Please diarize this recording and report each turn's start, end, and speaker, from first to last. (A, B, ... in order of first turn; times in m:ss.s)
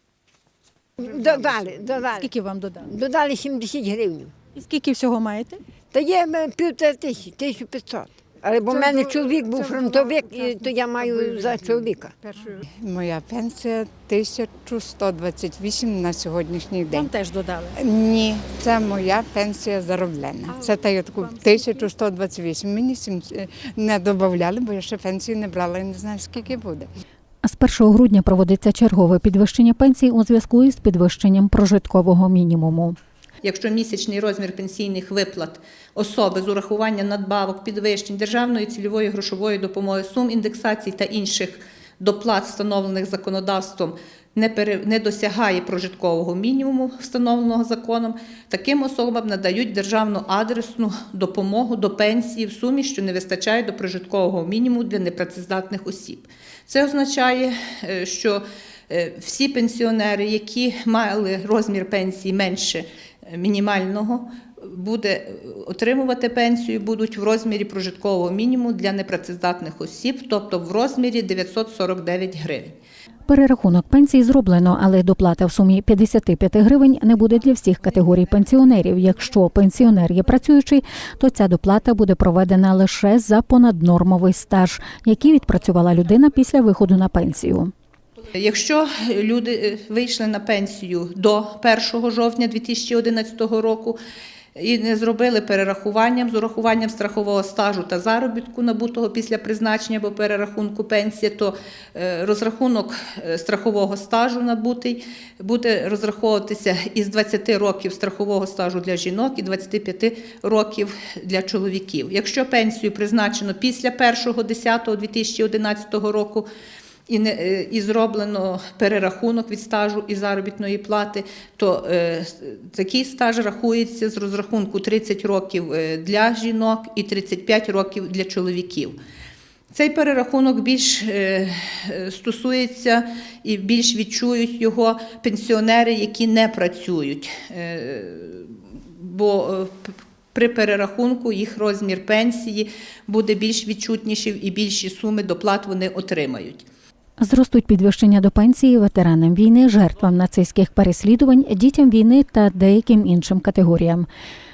0:01.0-0:04.3 A
0:01.0-0:01.8 B
0:02.0-0:02.9 C
0:04.6-0:05.6 C
0:05.9-0:12.1 A
0:08.8-0:17.1 B
0:16.9-0:17.8 C
0:17.8-0:26.9 B
0:20.5-0:21.9 C
0:27.4-0:33.0 D
0:33.4-1:12.8 E
1:13.3-1:27.7 D
1:28.3-1:34.0 E
1:34.6-1:56.4 E
1:57.1-2:09.0 E
2:09.7-2:26.6 E
2:27.2-2:34.1 D